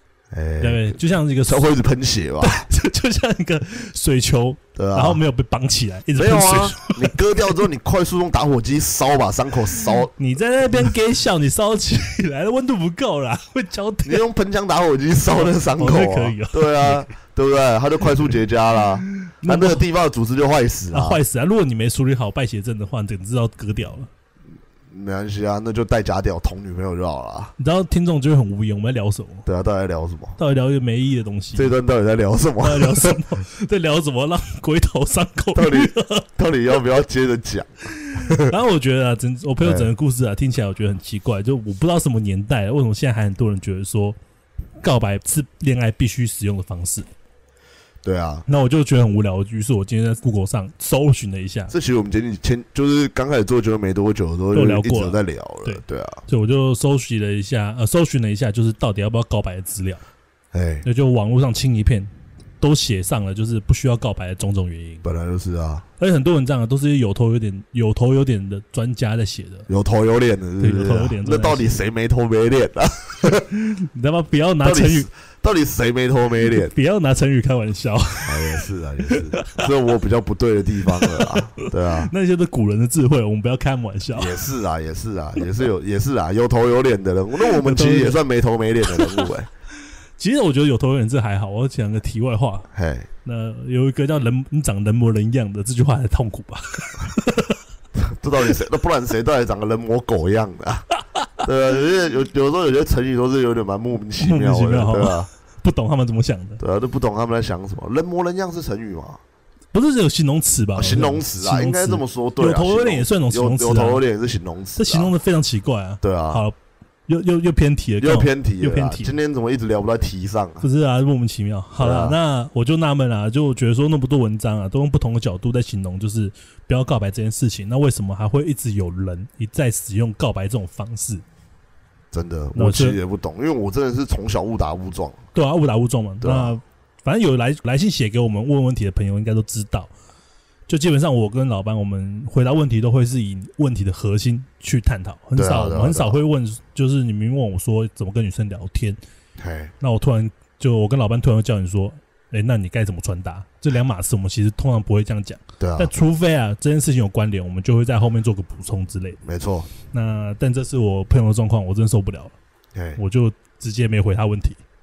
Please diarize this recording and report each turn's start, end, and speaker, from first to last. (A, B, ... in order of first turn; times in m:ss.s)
0:00.3-0:02.6 A
0:00.6-0:01.7 B
0:02.4-0:07.6 B
0:04.8-0:05.2 A
0:06.1-0:10.1 A
0:10.1-0:14.2 B
0:14.0-0:21.2 A
0:15.4-0:17.0 B
0:19.1-0:19.8 B
0:20.9-0:24.1 B
0:24.9-0:27.5 A
0:27.6-0:29.4 B
0:29.4-0:30.4 A
0:30.4-0:31.7 B
0:31.6-0:33.2 A
0:32.6-0:36.3 B
0:35.5-0:38.5 A
0:37.9-0:44.2 B
0:39.6-0:39.9 A
0:44.8-0:47.1 B
0:48.0-0:48.4 A
0:48.5-0:51.7 B
0:51.7-0:56.2 A
0:54.5-1:00.0 B
1:00.5-1:00.8 A
1:00.8-1:05.0 B
1:05.0-1:05.8 A
1:06.0-1:09.7 B
1:09.7-1:13.5 A
1:10.6-1:11.8 B
1:13.5-1:15.1 B
1:14.6-1:16.7 A
1:16.4-1:19.6 B
1:18.2-1:22.1 A
1:21.0-1:24.4 B
1:24.1-1:29.5 A
1:27.5-1:28.2 B
1:29.0-1:29.2 B
1:30.2-1:32.7 B
1:32.7-1:33.1 A
1:33.2-1:37.6 B
1:38.0-1:40.9 A
1:41.1-1:41.4 B
1:41.4-1:45.3 A
1:44.2-1:46.6 B
1:46.6-1:49.2 A
1:49.7-1:54.0 B
1:50.8-1:55.1 A
1:54.8-1:56.5 B
1:56.0-1:56.4 A
1:57.1-1:59.1 B
1:58.0-2:00.6 A
2:00.6-2:11.2 B
2:01.8-2:02.2 A
2:12.1-2:15.2 A
2:12.5-2:13.0 B
2:15.3-2:19.9 B
2:16.2-2:16.5 A
2:20.7-2:29.0 B
2:25.4-2:26.2 A
2:29.4-2:29.7 A
2:29.8-2:39.2 B
2:35.6-2:35.9 A
2:39.2-2:39.7 A
2:39.9-2:42.3 B
2:43.0-2:44.6 B